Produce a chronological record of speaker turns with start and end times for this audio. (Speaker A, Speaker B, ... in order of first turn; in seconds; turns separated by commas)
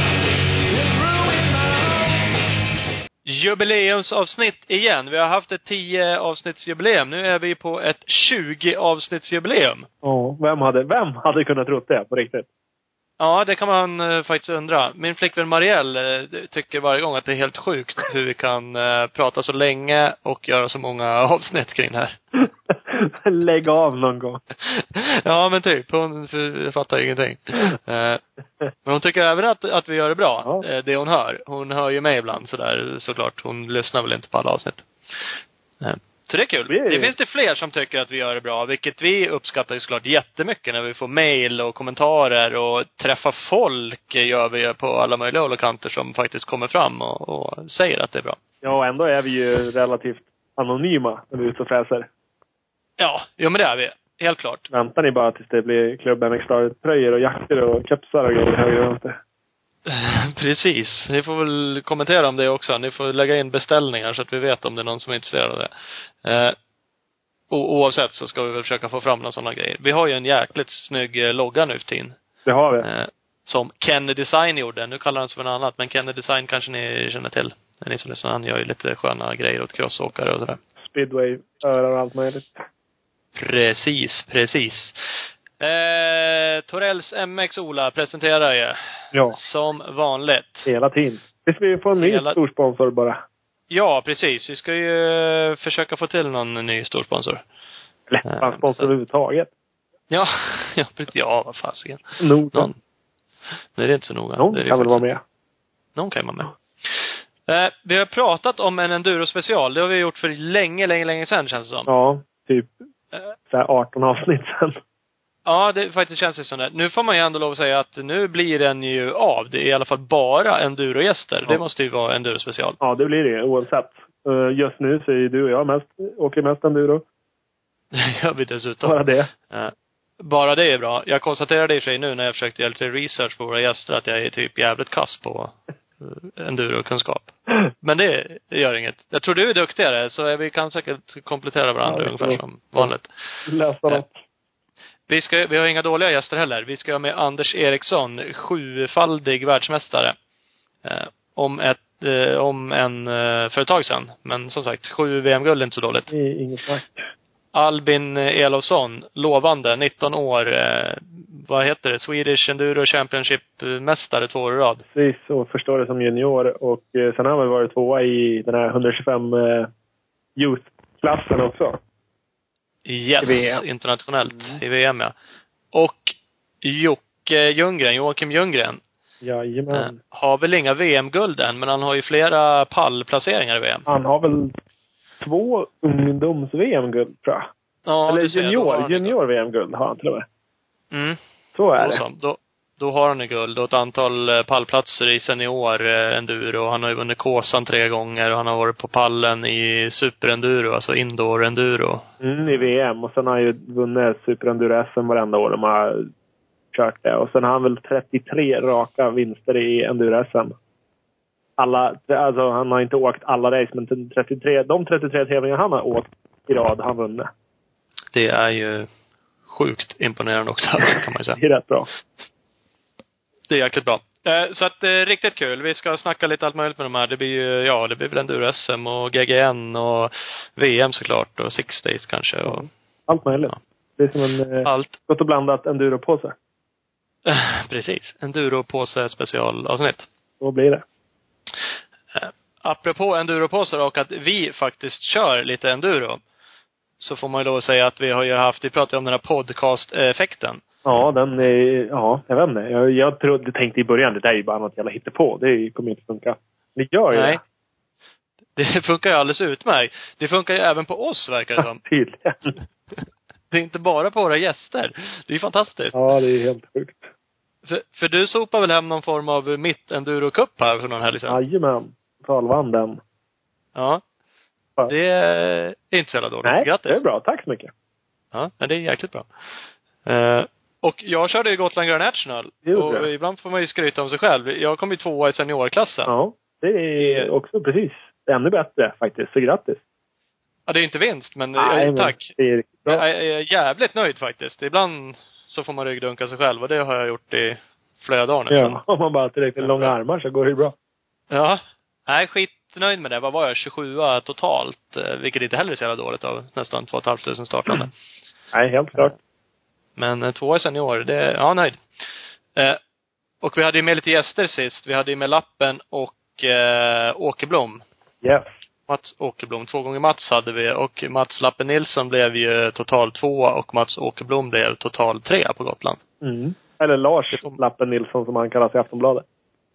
Speaker A: 3.2-9.9, Speaker B: 10.0-12.5, Speaker A: 13.2-22.2, Speaker B: 22.9-24.4, Speaker A: 24.6-28.2, Speaker A: 28.9-34.9, Speaker A: 35.8-48.4, Speaker B: 36.7-37.1, Speaker B: 48.6-52.1, Speaker A: 53.0-54.6, Speaker B: 54.7-59.2, Speaker A: 59.9-65.7, Speaker A: 66.2-66.6, Speaker A: 67.5-72.2, Speaker B: 72.5-72.9, Speaker A: 72.8-80.6, Speaker B: 80.8-82.6, Speaker A: 83.4-85.0, Speaker A: 85.6-88.8, Speaker A: 89.3-90.7, Speaker B: 90.7-93.2, Speaker A: 92.0-92.4, Speaker A: 93.7-97.4, Speaker B: 98.1-99.5, Speaker A: 98.2-98.9, Speaker A: 100.1-102.8, Speaker B: 102.2-102.7, Speaker A: 103.8-105.0, Speaker B: 104.4-105.2, Speaker A: 106.0-111.9, Speaker B: 111.9-112.7, Speaker B: 113.5-114.8, Speaker A: 115.5-122.8, Speaker B: 122.8-127.0, Speaker A: 127.9-143.1, Speaker B: 128.8-129.3, Speaker B: 141.8-142.9, Speaker B: 143.4-144.2, Speaker A: 145.1-150.1, Speaker A: 150.8-156.1, Speaker B: 156.1-157.1, Speaker A: 157.5-164.8, Speaker B: 164.9-169.7, Speaker B: 170.3-171.8, Speaker A: 172.8-175.1, Speaker B: 173.2-173.6, Speaker A: 175.7-178.8, Speaker B: 179.2-179.9, Speaker A: 179.7-183.8, Speaker B: 183.9-184.5, Speaker B: 185.2-187.5, Speaker A: 187.9-189.1, Speaker B: 188.1-190.2, Speaker A: 190.9-191.2, Speaker B: 191.5-192.0, Speaker A: 191.8-202.6, Speaker B: 202.2-206.1, Speaker B: 206.7-210.6, Speaker B: 211.6-217.3, Speaker A: 218.1-218.9, Speaker A: 219.5-221.4, Speaker B: 221.4-221.9, Speaker A: 223.5-232.7, Speaker B: 232.5-236.3, Speaker A: 234.6-235.0, Speaker A: 237.2-240.1, Speaker B: 240.4-240.8, Speaker A: 242.1-246.2, Speaker A: 247.0-250.6, Speaker B: 250.8-257.4, Speaker A: 257.1-257.4, Speaker A: 258.6-261.8, Speaker B: 261.6-262.5, Speaker A: 263.5-265.9, Speaker B: 265.9-267.1, Speaker A: 267.6-271.4, Speaker B: 271.3-273.0, Speaker A: 273.8-274.0, Speaker A: 274.9-277.0, Speaker B: 276.4-277.7, Speaker A: 278.3-279.3, Speaker A: 280.1-286.1, Speaker B: 282.6-283.1, Speaker B: 286.1-289.8, Speaker A: 287.0-287.3, Speaker A: 290.7-292.3, Speaker B: 291.6-293.0, Speaker A: 292.9-298.8, Speaker B: 298.5-300.8, Speaker A: 299.6-299.9, Speaker A: 301.3-307.9, Speaker B: 308.5-309.1, Speaker A: 310.0-311.8, Speaker A: 313.4-317.8, Speaker B: 318.2-318.5, Speaker A: 318.9-326.0, Speaker B: 326.2-329.2